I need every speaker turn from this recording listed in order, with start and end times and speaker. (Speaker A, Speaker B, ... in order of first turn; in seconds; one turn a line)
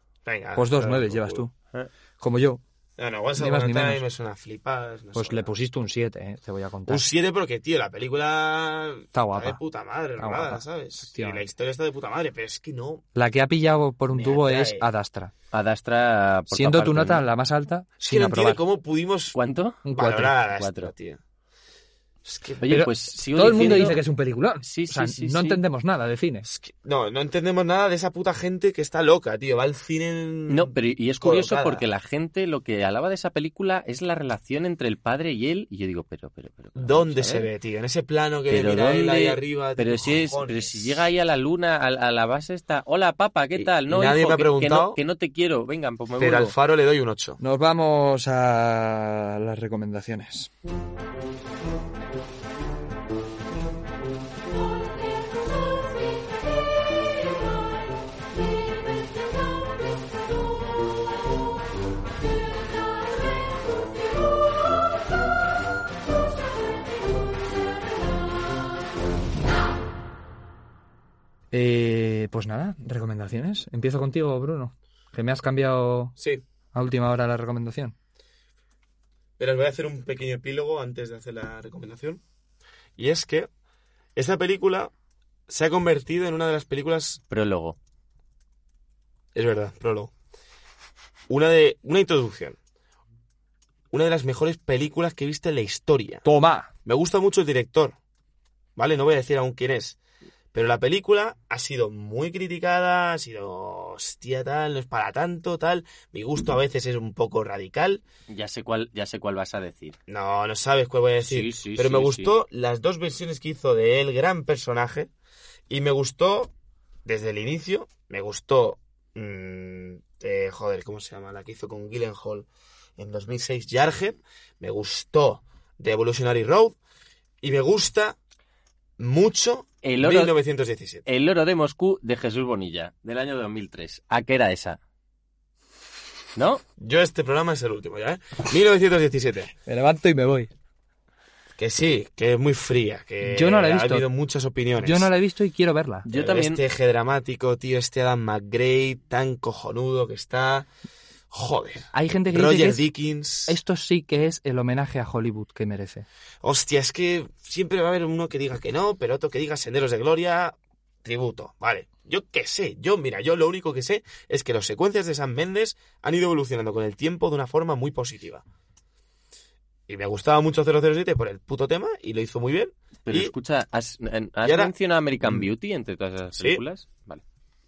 Speaker A: 0.2-1.5
Speaker B: 0.6-1.5
Speaker B: 2.2-2.6
Speaker A: 3.0-5.5
Speaker B: 3.4-4.0
Speaker B: 5.2-7.1
Speaker A: 6.9-13.0
Speaker B: 9.1-9.6
Speaker B: 10.2-11.5
Speaker B: 13.2-15.3
Speaker A: 14.1-14.9
Speaker C: 15.5-17.2
Speaker B: 16.5-18.6
Speaker A: 18.0-19.4
Speaker C: 19.4-19.9
Speaker B: 19.9-20.4
Speaker A: 19.9-21.2
Speaker C: 20.6-20.9
Speaker A: 22.3-22.6
Speaker C: 22.6-24.0
Speaker B: 22.6-26.5
Speaker A: 23.6-23.9
Speaker C: 24.6-25.6
Speaker A: 26.4-31.8
Speaker C: 30.5-37.5
Speaker A: 36.8-40.9
Speaker C: 38.5-46.5
Speaker A: 43.6-45.0
Speaker A: 46.2-47.4
Speaker B: 47.4-50.5
Speaker B: 71.5-76.2
Speaker A: 76.2-76.4
Speaker B: 76.7-78.0
Speaker A: 79.4-82.2
Speaker A: 83.0-83.5
Speaker A: 84.2-84.9
Speaker A: 85.5-87.2
Speaker C: 87.3-87.8
Speaker A: 89.3-90.1
Speaker A: 91.3-92.6
Speaker A: 93.9-96.2
Speaker B: 96.2-96.7
Speaker A: 96.9-98.0
Speaker A: 98.8-100.0
Speaker A: 100.5-108.0
Speaker C: 108.3-110.0
Speaker A: 110.1-115.1
Speaker C: 111.3-112.3
Speaker A: 115.7-116.5
Speaker A: 117.0-126.8
Speaker A: 127.4-128.2
Speaker A: 129.0-131.1
Speaker C: 129.8-130.3
Speaker C: 131.1-134.8
Speaker C: 136.4-136.6
Speaker A: 136.8-139.5
Speaker B: 139.7-140.5
Speaker A: 141.6-145.1
Speaker B: 143.2-144.1
Speaker B: 144.8-146.1
Speaker C: 146.1-146.6
Speaker A: 146.1-150.7
Speaker A: 151.3-153.6
Speaker B: 151.9-152.9
Speaker B: 153.5-156.1
Speaker A: 156.4-168.4
Speaker A: 169.9-173.3
Speaker C: 173.1-177.2
Speaker A: 174.4-175.5
Speaker A: 176.4-176.6